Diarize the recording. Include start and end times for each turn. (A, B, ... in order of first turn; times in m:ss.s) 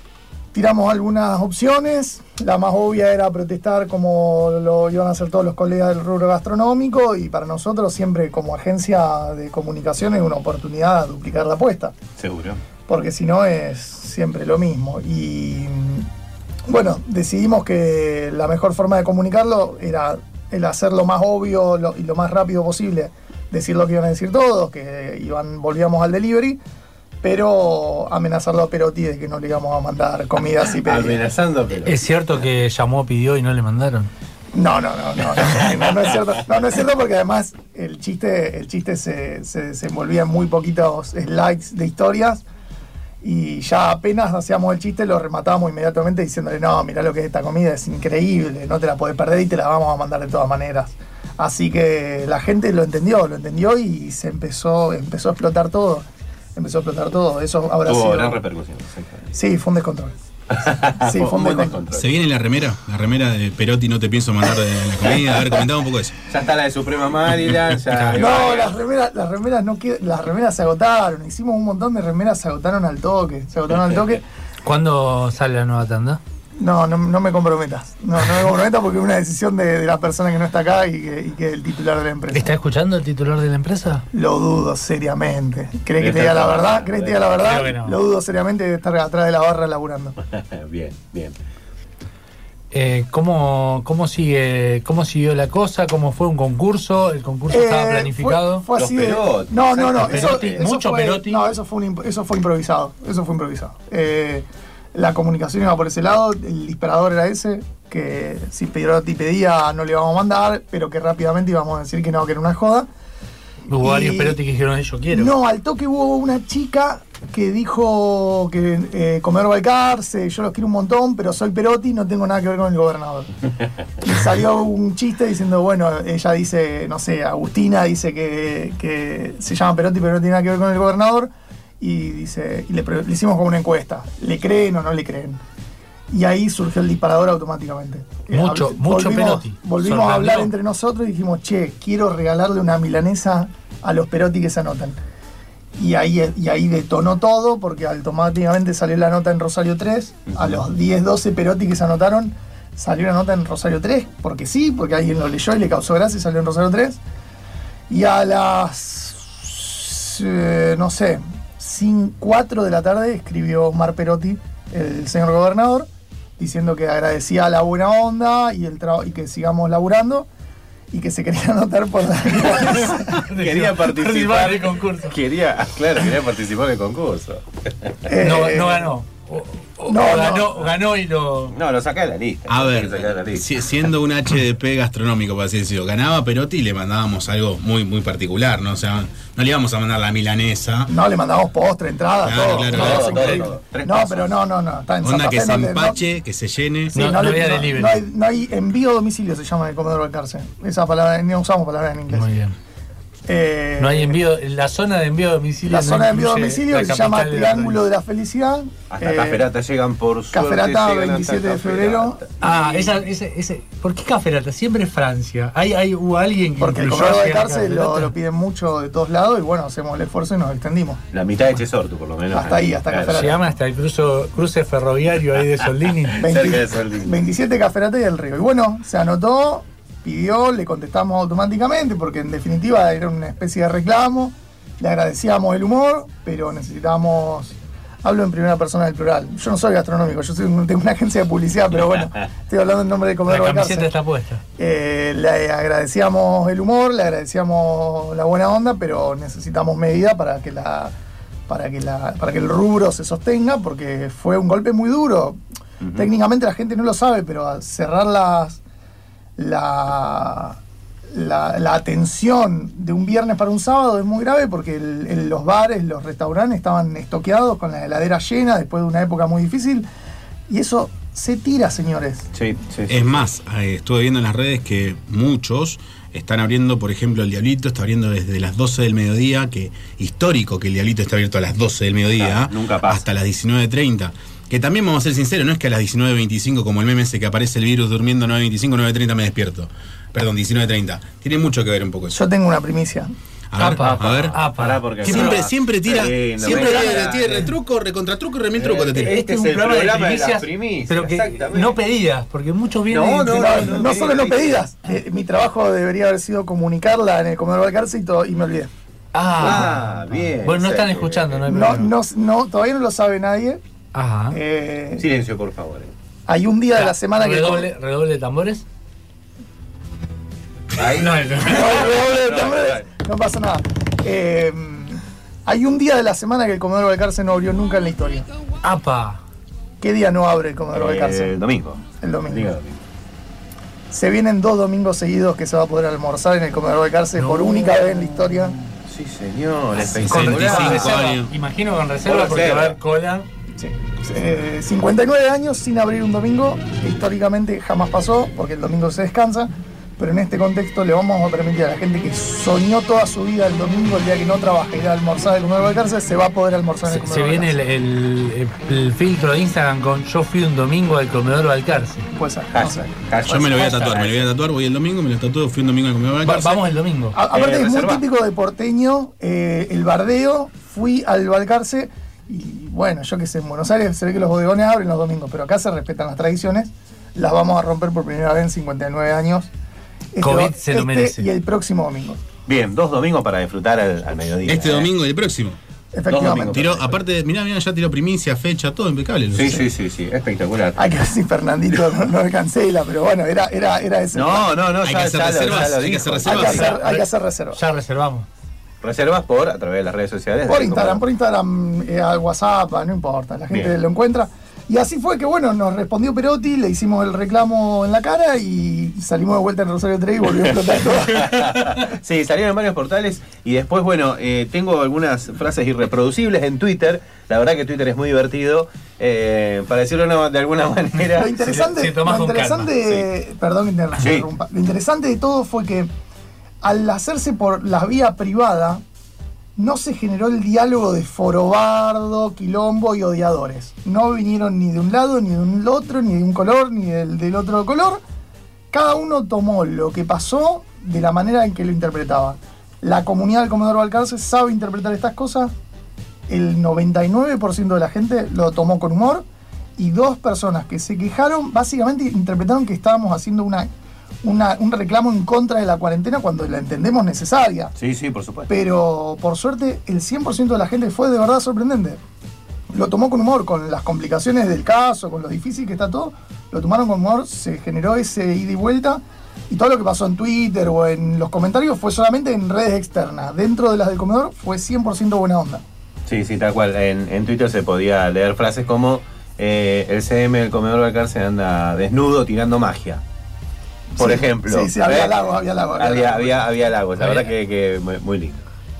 0:00.5-0:11.9 A
0:12.2-0:12.6 B
0:12.9-0:16.1 A
0:16.7-0:26.6 A
0:27.2-0:31.2 A
0:30.8-0:32.0 B
0:31.8-0:34.1 C
0:34.5-0:42.4 A
0:43.2-0:56.0 A
0:56.6-0:58.4 A
0:57.9-0:59.3 B
0:59.3-1:00.1 A
1:00.5-1:02.1 B
1:01.0-1:01.8 A
1:01.9-1:06.2 D
1:05.0-1:05.4 B
1:06.3-1:08.8 B
1:07.8-1:08.3 D
1:08.1-1:14.2 A
1:14.6-1:16.2 C
1:16.6-1:22.5 A
1:22.3-1:24.0 C
1:24.1-1:30.1 A
1:26.0-1:27.6 B
1:27.4-1:28.0 C
1:30.2-1:31.4 B
1:32.7-1:38.6 C
1:37.5-1:52.9 A
1:38.8-1:40.5 B
1:40.0-1:41.4 C
1:53.7-1:55.3 C
1:53.8-1:54.4 A
1:55.1-2:03.3 A
2:04.0-2:15.4 A
2:16.1-2:25.0 A
2:18.3-2:20.5 C
2:25.8-2:37.0 A
2:30.3-2:30.6 B
2:37.9-2:50.3 A
2:50.9-2:53.2 A
2:52.6-2:55.2 C
2:53.3-2:58.0 B
2:58.1-2:58.9 A
2:58.2-3:01.6 C
2:59.9-3:00.6 A
3:01.5-3:03.5 B
3:02.5-3:10.9 D
3:10.9-3:16.0 A
3:12.2-3:13.4 D
3:12.7-3:14.3 B
3:15.0-3:17.0 D
3:16.9-3:22.3 A
3:17.0-3:18.0 C
3:22.1-3:22.5 C
3:23.3-3:24.1 A
3:23.8-3:27.8 C
3:25.6-3:29.5 A
3:28.9-3:32.8 B
3:30.3-3:32.2 A
3:32.4-3:38.1 C
3:36.6-3:41.0 A
3:41.1-3:43.3 B
3:42.3-3:43.3 A
3:43.1-3:46.2 C
3:46.2-3:47.2 B
3:46.2-4:03.9 A
4:03.3-4:04.4 C
4:04.6-4:11.0 A
4:11.5-4:15.4 A
4:15.8-4:16.1 B
4:15.9-4:18.6 A
4:19.4-4:20.6 A
4:21.1-4:29.9 A
4:30.5-4:32.3 A
4:32.3-4:33.3 B
4:32.9-4:52.2 D
4:42.2-4:43.0 B
4:52.1-4:53.1 A
4:53.5-4:54.4 D
4:53.6-4:55.4 C
4:53.7-4:57.5 B
4:55.0-4:59.2 D
4:58.6-5:01.8 B
4:59.0-5:03.7 C
5:02.9-5:04.6 B
5:03.2-5:08.7 A
5:09.1-5:09.8 C
5:09.4-5:11.7 B
5:10.4-5:11.9 C
5:11.5-5:13.6 A
5:13.9-5:14.4 C
5:14.3-5:15.0 A
5:15.0-5:15.9 B
5:16.3-5:17.7 A
5:16.7-5:18.6 C
5:20.7-5:22.9 B
5:21.0-5:21.7 C
5:21.4-5:28.3 A
5:28.6-5:29.2 C
5:29.8-5:31.4 A
5:30.7-5:32.8 B
5:32.0-5:32.5 A
5:33.9-5:38.6 A
5:37.2-5:38.2 C
5:38.8-5:40.9 B
5:39.8-5:43.3 C
5:39.9-5:41.3 D
5:42.0-5:42.8 B
5:43.6-5:57.6 A
5:56.8-6:02.1 C
6:02.1-6:03.7 A
6:02.5-6:04.3 B
6:03.3-6:06.6 D
6:06.2-6:07.2 C
6:07.1-6:19.5 A
6:07.3-6:08.0 B
6:20.1-6:22.2 A
6:20.2-6:21.3 C
6:22.5-6:24.9 B
6:24.4-6:25.6 D
6:25.9-6:26.7 A
6:26.1-6:27.0 B
6:26.5-6:29.7 D
6:29.3-6:30.9 B
6:30.8-6:34.6 A
6:34.1-6:36.8 B
6:34.8-6:37.0 D
6:36.2-6:37.6 A
6:37.5-6:38.3 C
6:38.8-6:41.0 B
6:40.4-6:51.6 A
6:43.5-6:43.8 B
6:51.1-7:01.7 B
7:01.1-7:05.9 A
7:01.5-7:02.7 C
7:04.0-7:04.3 B
7:06.6-7:08.8 A
7:09.6-7:18.0 A
7:18.7-7:25.5 A
7:26.3-7:29.2 A
7:29.8-7:33.7 A
7:34.2-7:37.7 A
7:37.8-7:38.5 B
7:38.5-7:42.0 A
7:42.7-7:55.6 A
7:56.1-8:03.0 B
8:04.0-8:06.5 A
8:04.0-8:08.4 B